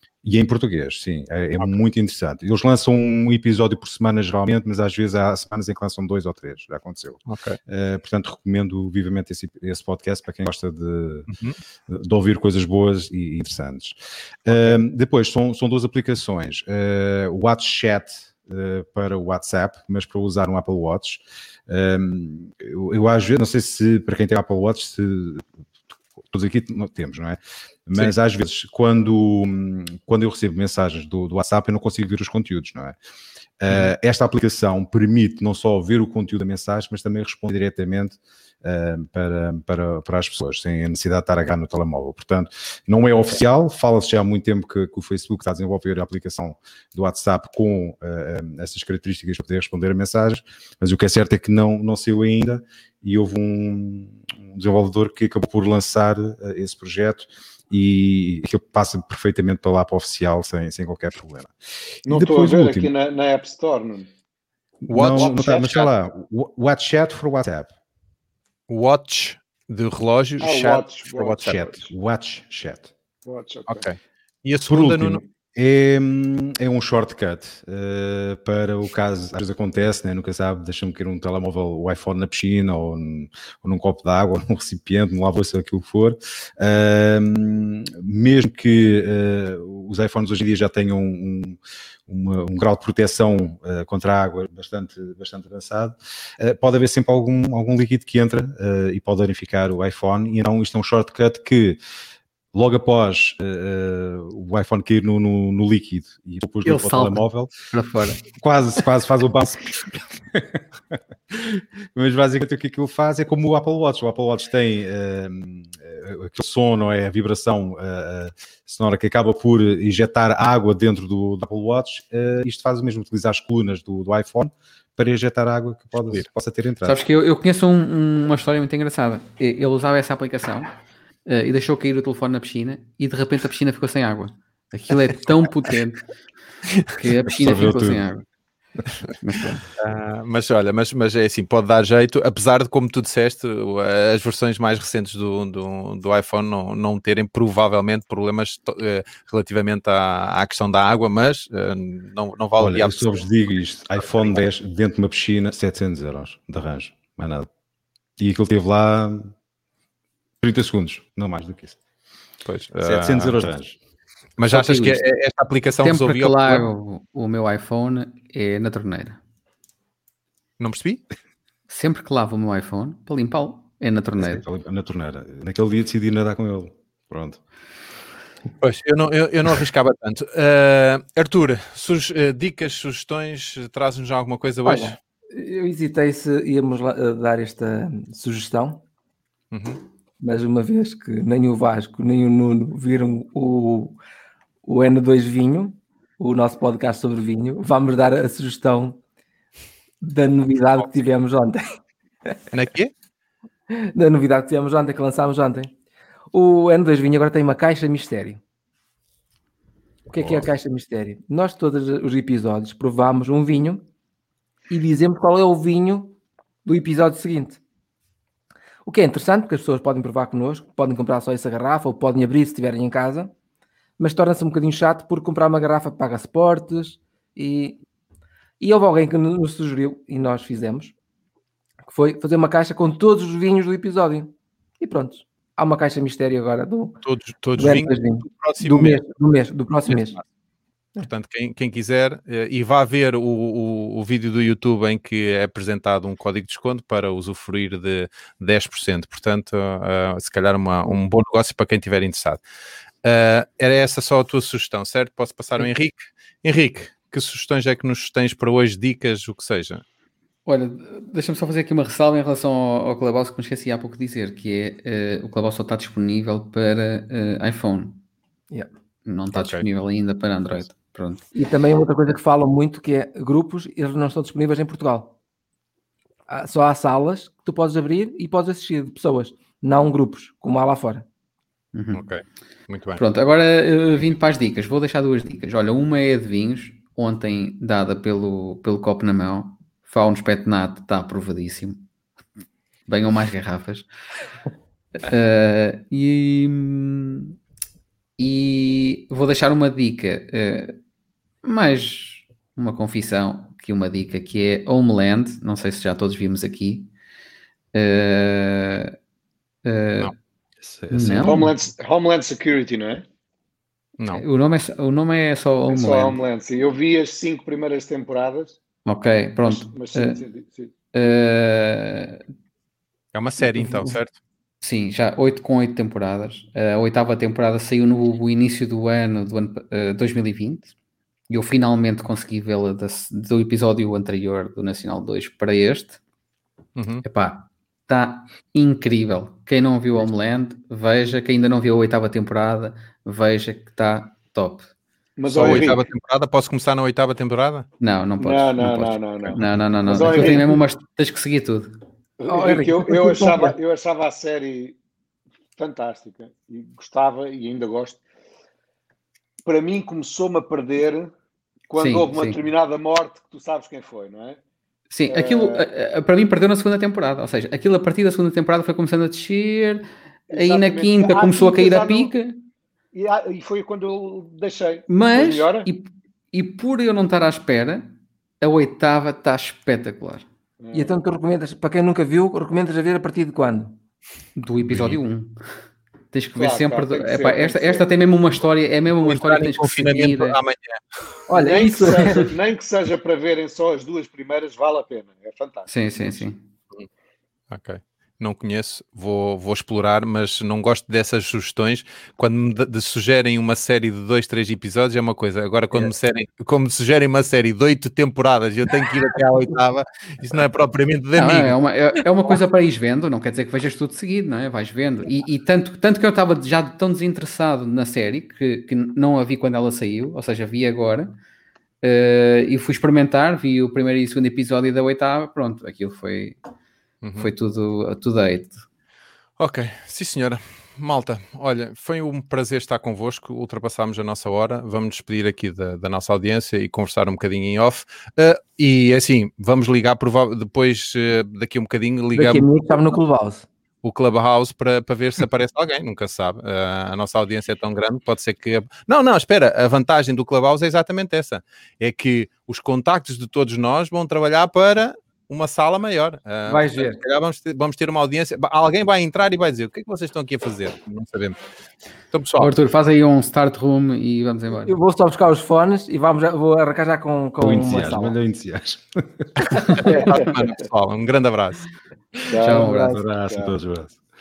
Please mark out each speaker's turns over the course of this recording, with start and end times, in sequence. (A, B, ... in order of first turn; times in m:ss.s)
0:00.2-0:11.3 A
0:07.3-0:07.6 B
0:11.3-0:11.6 B
0:11.9-0:25.4 A
0:14.5-0:14.8 B
0:26.3-0:33.0 A
0:33.6-1:02.9 A
1:02.1-1:04.1 C
1:04.8-1:07.7 A
1:04.9-1:05.4 B
1:05.0-1:05.9 C
1:08.7-1:11.7 B
1:10.4-1:11.9 C
1:11.4-1:12.9 A
1:13.2-1:13.8 C
1:13.7-1:15.2 B
1:14.7-1:41.8 A
1:42.5-1:47.5 A
1:46.6-1:48.2 D
1:48.3-2:07.0 A
2:06.8-2:10.7 D
2:11.2-2:16.0 D
2:16.9-2:18.2 D
2:17.4-2:18.0 A
2:19.2-2:19.6 D
2:19.8-2:33.2 B
2:32.6-2:37.5 A
2:34.0-2:34.3 B
2:38.2-2:39.3 A
2:40.4-2:41.8 A
2:42.4-2:43.4 B
2:42.8-2:43.8 A
2:44.4-2:46.7 B
2:44.4-2:45.0 D
2:45.8-2:49.2 D
2:50.6-2:51.0 B
2:51.7-2:54.4 D
2:54.2-2:57.4 A
2:58.6-3:05.0 B
3:04.6-3:08.8 E
3:09.5-3:09.8 B
3:10.2-3:14.0 E
3:14.6-3:19.0 E
3:20.0-3:21.7 E
3:22.5-3:22.9 B
3:23.7-3:25.7 E
3:26.3-3:28.4 E
3:30.1-3:33.8 E
3:30.1-3:30.5 B
3:34.7-3:37.6 E
3:38.8-3:43.3 E
3:44.0-3:47.8 E
3:48.6-3:50.9 E
3:51.9-3:56.9 E
3:57.0-3:59.0 B
3:57.6-4:00.2 E
3:59.9-4:00.2 B
4:01.0-4:12.4 B
4:13.0-4:19.8 B
4:20.4-4:28.0 D
4:29.0-4:31.2 D
4:29.3-4:29.6 B
4:31.3-4:35.1 E
4:36.3-4:41.0 E
4:41.7-4:42.0 D
4:41.9-4:43.0 B
4:43.0-4:51.8 D
4:52.9-4:53.9 D
4:55.0-4:57.3 D
4:58.2-5:00.8 D
5:01.4-5:06.9 D
5:07.7-5:09.0 D
5:09.6-5:10.1 D
5:10.6-5:11.4 A
5:10.9-5:11.5 D
5:11.1-5:13.0 C
5:14.0-5:14.2 B
5:14.1-5:16.2 D
5:15.7-5:18.6 C
5:18.8-5:20.2 D
5:19.4-5:20.7 C
5:20.9-5:22.2 D
5:23.1-5:24.2 B
5:23.6-5:23.9 E
5:24.6-5:30.7 D
5:31.3-5:36.0 D
5:36.8-5:37.0 B
5:37.0-5:44.7 D
5:45.2-5:45.8 C
5:45.3-5:47.7 B
5:47.8-5:51.7 D
5:48.2-5:50.6 C
5:52.2-5:54.8 C
5:52.3-5:53.5 E
5:55.6-5:58.0 C
5:59.4-6:01.1 C
6:01.7-6:04.4 C
6:01.8-6:02.4 D
6:04.9-6:12.4 D
6:05.1-6:05.7 C
6:10.3-6:12.1 C
6:12.9-6:15.7 C
6:14.9-6:17.9 D
6:18.4-6:20.2 D
6:20.6-6:21.0 C
6:20.7-6:23.8 E
6:24.4-6:25.4 D
6:24.7-6:25.0 B
6:26.1-6:30.4 D
6:26.3-6:27.9 C
6:29.0-6:30.8 B
6:31.3-6:32.3 E
6:31.3-6:36.3 C
6:35.7-6:36.4 D
6:37.5-6:51.6 B
6:51.1-7:01.1 D
7:01.8-7:06.4 D
7:07.0-7:07.3 B
7:07.2-7:08.6 D
7:09.4-7:22.7 B
7:22.1-7:23.4 E
7:23.8-7:41.4 B
7:36.5-7:37.0 E
7:42.1-7:42.5 B
7:42.4-7:44.8 D
7:44.6-7:48.2 E
7:47.4-7:49.3 A
7:49.6-7:50.0 D
7:49.7-7:50.0 E
7:49.8-7:51.6 B
7:49.9-7:50.3 C
7:52.3-7:53.5 C
7:52.4-7:53.0 D
7:52.5-7:54.0 A